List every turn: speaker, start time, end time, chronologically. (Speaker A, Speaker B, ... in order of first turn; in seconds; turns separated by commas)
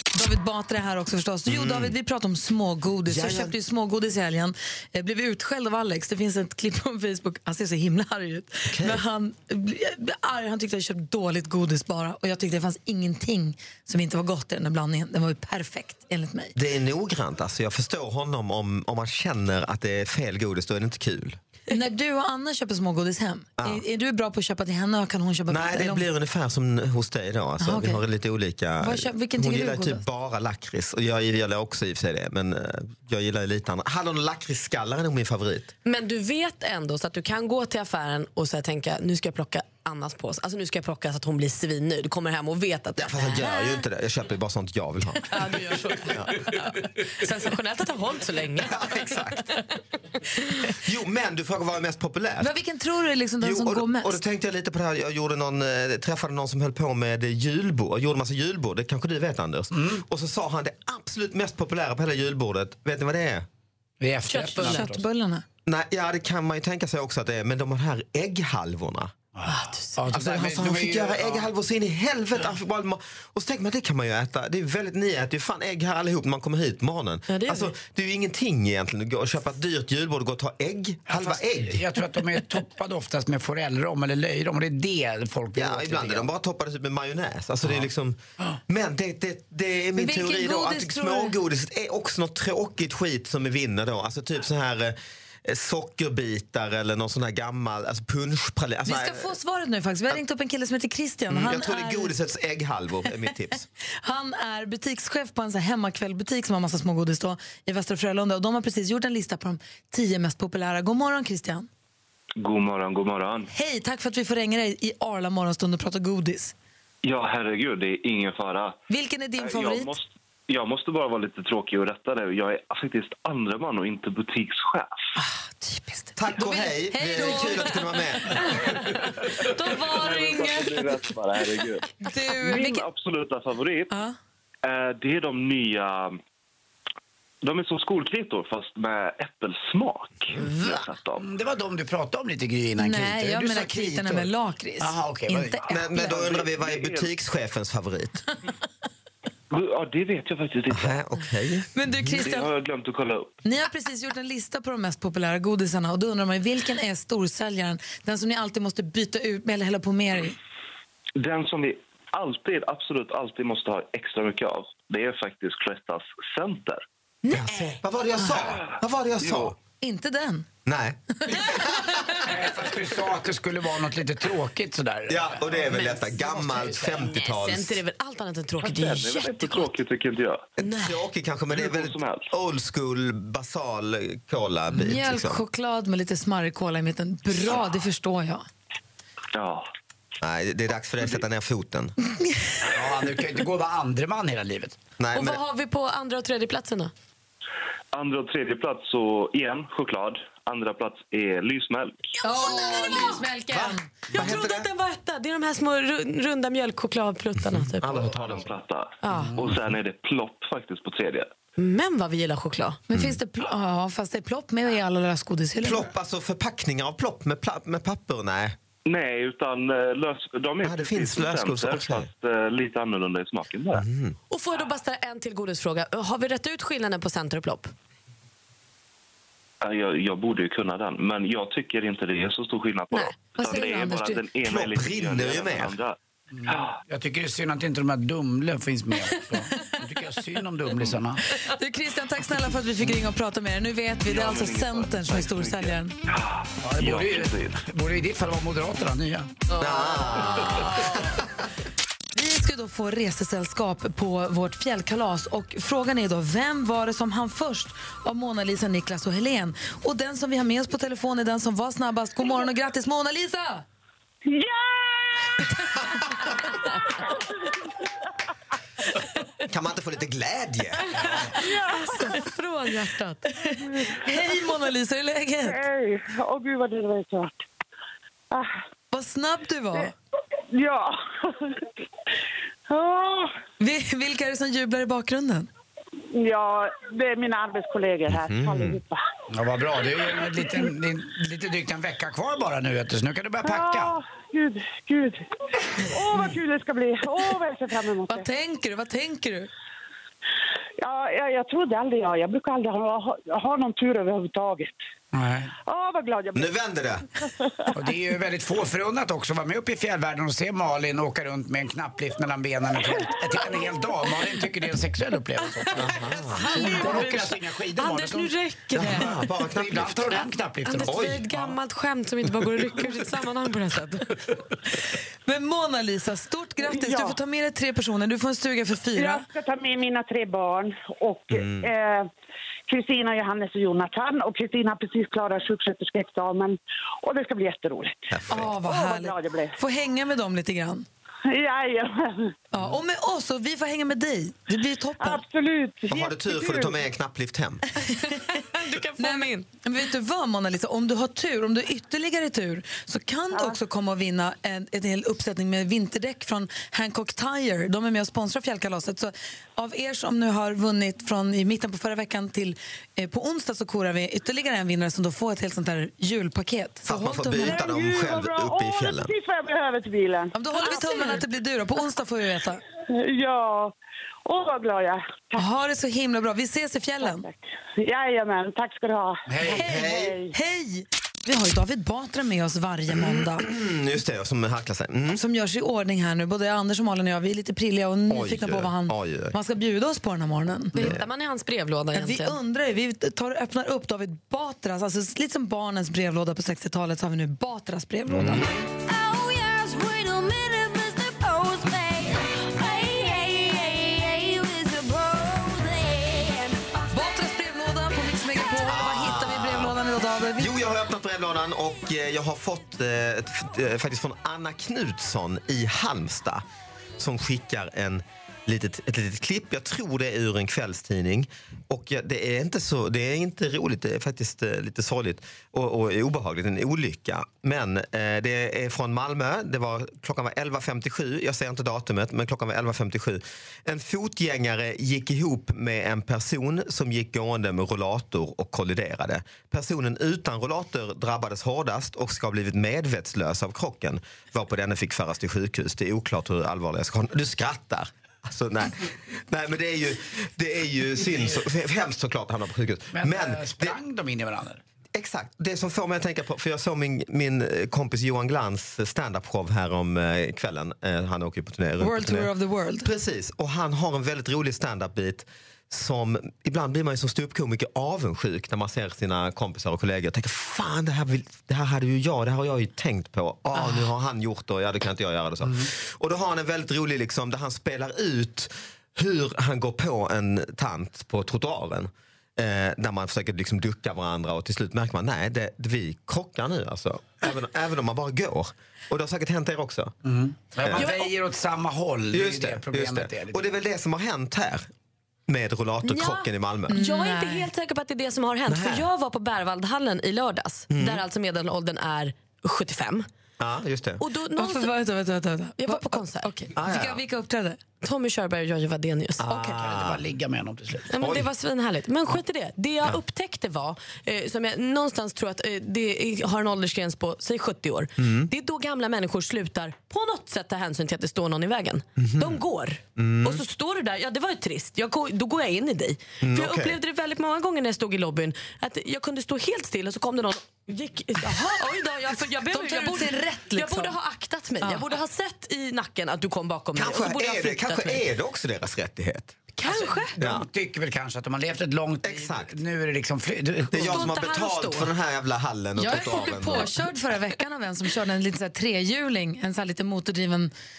Speaker A: 0.1-16.5, Speaker B: 1.5-2.0, Speaker B: 3.1-3.5, Speaker B: 8.7-9.0, Speaker B: 16.6-21.4, Speaker A: 21.7-26.1, Speaker B: 25.5-35.7, Speaker A: 27.6-28.0, Speaker A: 28.8-30.1, Speaker C: 35.9-43.8, Speaker B: 43.0-45.4, Speaker C: 45.3-49.6, Speaker B: 46.1-46.3, Speaker B: 48.5-49.5, Speaker B: 50.7-52.6, Speaker A: 52.4-54.2, Speaker B: 53.4-63.5, Speaker D: 59.7-60.0, Speaker D: 64.0-65.0, Speaker C: 64.3-64.8, Speaker A: 64.6-65.5, Speaker B: 65.7-69.2, Speaker D: 69.3-71.5, Speaker C: 69.5-70.0, Speaker B: 70.1-81.8, Speaker C: 77.3-77.7, Speaker D: 81.1-86.3, Speaker B: 85.6-88.2, Speaker B: 88.7-99.3, Speaker A: 90.0-91.4, Speaker A: 98.9-102.2, Speaker B: 101.3-103.6, Speaker A: 103.0-103.4, Speaker A: 104.0-111.7, Speaker E: 112.4-113.5, Speaker A: 113.5-116.5, Speaker E: 117.0-118.8, Speaker A: 118.9-120.0, Speaker E: 119.4-125.0, Speaker A: 125.2-131.0, Speaker B: 126.2-128.3, Speaker E: 129.9-133.9, Speaker A: 132.0-132.9, Speaker A: 133.9-134.2, Speaker E: 134.6-136.2, Speaker E: 137.4-141.3, Speaker D: 141.2-144.3, Speaker A: 142.8-146.3, Speaker D: 144.8-145.6, Speaker B: 145.7-148.2, Speaker E: 146.0-147.1, Speaker E: 149.5-151.0, Speaker B: 150.7-152.2, Speaker A: 151.7-152.5, Speaker E: 152.2-153.3, Speaker A: 153.4-160.4, Speaker E: 161.2-166.8, Speaker C: 167.3-167.8, Speaker B: 167.3-169.6, Speaker E: 168.6-169.5, Speaker A: 169.8-170.5, Speaker B: 170.7-171.7, Speaker A: 171.2-171.7, Speaker D: 172.2-177.1, Speaker B: 175.1-177.8, Speaker C: 176.9-179.7, Speaker E: 178.6-180.5, Speaker C: 180.6-181.0, Speaker B: 180.6-185.4, Speaker E: 181.5-182.3, Speaker A: 184.7-188.5, Speaker E: 189.3-189.7, Speaker B: 190.2-191.9, Speaker A: 192.2-192.6, Speaker D: 192.7-194.8, Speaker B: 195.0-195.4, Speaker C: 195.1-196.9, Speaker E: 197.9-202.0, Speaker A: 202.2-203.9, Speaker C: 202.3-203.2, Speaker B: 203.5-204.7, Speaker C: 204.1-208.0, Speaker B: 207.5-208.5, Speaker E: 207.9-211.3, Speaker C: 209.0-209.4, Speaker C: 211.6-212.8, Speaker A: 212.9-215.9, Speaker B: 215.6-218.6, Speaker E: 218.9-223.8, Speaker B: 220.6-222.1, Speaker B: 223.8-224.2, Speaker C: 224.3-227.7, Speaker E: 229.6-236.0, Speaker C: 232.9-233.2, Speaker A: 233.3-234.2, Speaker B: 234.4-235.8, Speaker D: 236.3-241.2, Speaker E: 236.5-236.8, Speaker A: 241.4-246.0, Speaker E: 244.1-247.6, Speaker D: 246.6-249.3, Speaker C: 249.5-251.1, Speaker B: 249.6-251.2, Speaker A: 252.2-263.6, Speaker F: 264.3-265.4, Speaker B: 269.5-271.0, Speaker D: 271.0-271.3, Speaker F: 271.4-272.1, Speaker C: 271.7-273.2, Speaker A: 273.4-275.6, Speaker F: 273.6-274.2, Speaker F: 275.5-277.4, Speaker A: 278.9-279.9, Speaker F: 280.5-281.5, Speaker F: 282.7-283.3, Speaker A: 283.6-285.5, Speaker F: 286.1-289.0, Speaker B: 288.1-288.8, Speaker D: 289.3-294.0, Speaker F: 293.4-298.3, Speaker A: 298.1-299.5, Speaker F: 300.8-304.8, Speaker D: 305.1-305.5, Speaker F: 305.7-306.6, Speaker B: 306.4-307.1, Speaker D: 307.7-321.6, Speaker B: 315.8-316.4, Speaker C: 316.4-319.1, Speaker B: 318.8-320.2, Speaker C: 320.6-324.1, Speaker B: 320.8-321.2, Speaker A: 325.3-329.3, Speaker F: 326.7-327.1, Speaker F: 329.0-332.1, Speaker B: 331.3-331.7, Speaker F: 332.7-339.6, Speaker B: 338.1-338.6, Speaker A: 338.3-340.9, Speaker F: 341.3-342.3, Speaker A: 342.5-345.2, Speaker F: 345.0-346.8, Speaker B: 345.9-347.6, Speaker A: 347.8-348.2, Speaker C: 348.3-349.5, Speaker A: 349.0-367.7, Speaker B: 366.9-369.1, Speaker F: 367.4-371.2, Speaker A: 370.3-372.6, Speaker F: 372.9-373.7, Speaker F: 374.3-375.4, Speaker A: 375.4-377.3, Speaker F: 377.0-379.3, Speaker D: 379.3-379.7, Speaker A: 379.5-383.5, Speaker B: 379.7-380.1, Speaker F: 379.8-380.3, Speaker B: 383.0-385.2, Speaker A: 385.1-390.9, Speaker B: 388.1-389.4, Speaker C: 390.8-392.4, Speaker B: 390.8-391.0, Speaker A: 391.9-398.5, Speaker B: 398.1-398.6, Speaker A: 406.9-410.5, Speaker B: 408.7-409.8, Speaker B: 410.4-416.4, Speaker B: 417.0-453.8, Speaker D: 452.9-454.6, Speaker B: 454.9-462.3, Speaker A: 461.8-462.9, Speaker B: 462.8-489.9, Speaker D: 490.0-493.5, Speaker B: 490.6-490.9, Speaker C: 490.8-491.1, Speaker B: 492.1-494.7, Speaker B: 495.3-496.7, Speaker C: 495.8-503.1, Speaker A: 496.7-497.5, Speaker B: 498.5-498.9, Speaker B: 500.7-501.0, Speaker B: 503.4-504.0, Speaker C: 504.0-504.7, Speaker A: 504.4-507.6, Speaker C: 505.6-506.5, Speaker B: 506.6-507.0, Speaker C: 507.8-509.3, Speaker B: 509.2-510.0, Speaker D: 509.2-511.0, Speaker C: 510.9-538.0, Speaker B: 511.0-511.3, Speaker B: 518.0-518.3, Speaker B: 522.0-522.4, Speaker B: 523.0-523.4, Speaker B: 526.2-526.8, Speaker A: 531.2-531.6, Speaker A: 532.2-534.0, Speaker A: 534.6-534.9, Speaker B: 536.7-539.4, Speaker A: 539.6-540.1, Speaker C: 539.6-540.1, Speaker D: 540.2-544.1, Speaker B: 540.2-540.5, Speaker B: 542.0-542.5, Speaker B: 543.7-546.7, Speaker C: 543.8-544.9, Speaker A: 545.8-550.5